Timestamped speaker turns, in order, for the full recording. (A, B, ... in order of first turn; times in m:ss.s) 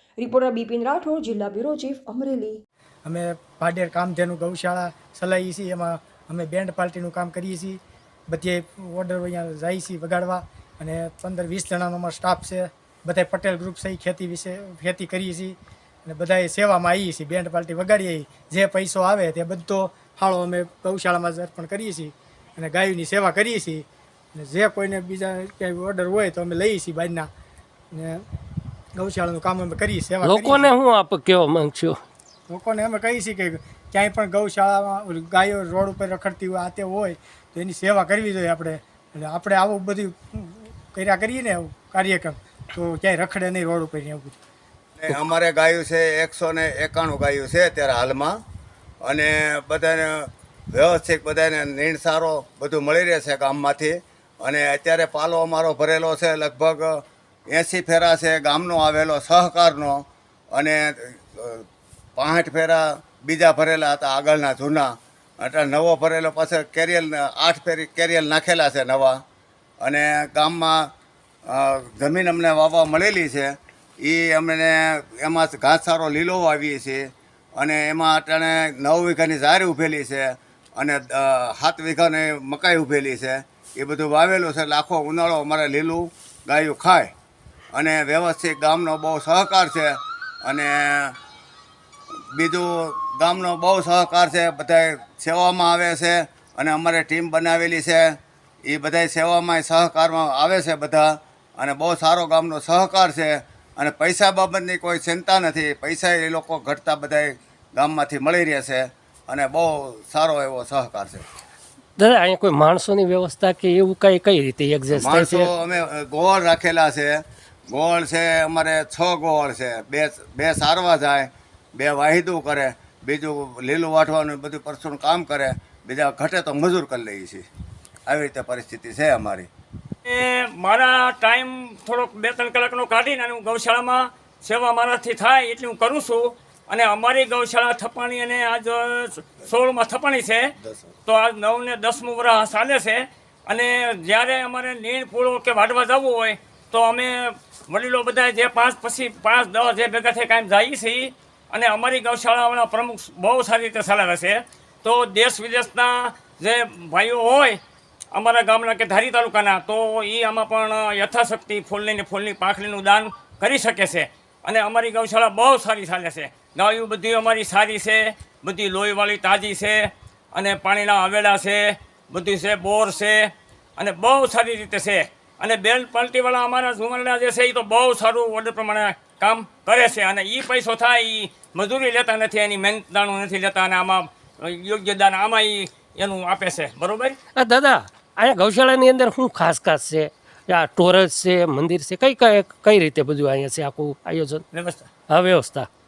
0:00.2-0:02.6 A
0:03.0-0:27.3 B
0:27.9-0:28.3 B
0:29.0-0:30.7 B
0:30.2-0:32.0 C
0:32.5-0:44.4 B
0:45.0-0:48.4 D
0:49.0-1:01.6 D
1:02.2-1:09.2 D
1:09.8-1:10.9 D
1:11.5-1:27.1 D
1:27.7-1:31.2 D
1:32.3-1:51.2 D
1:52.0-1:55.5 C
1:55.0-2:07.4 D
2:08.1-2:09.5 D
2:10.1-2:20.5 E
2:21.1-2:37.6 E
2:38.1-3:07.2 E
3:07.4-3:14.4 C
3:14.5-3:14.9 E
3:15.1-3:15.7 C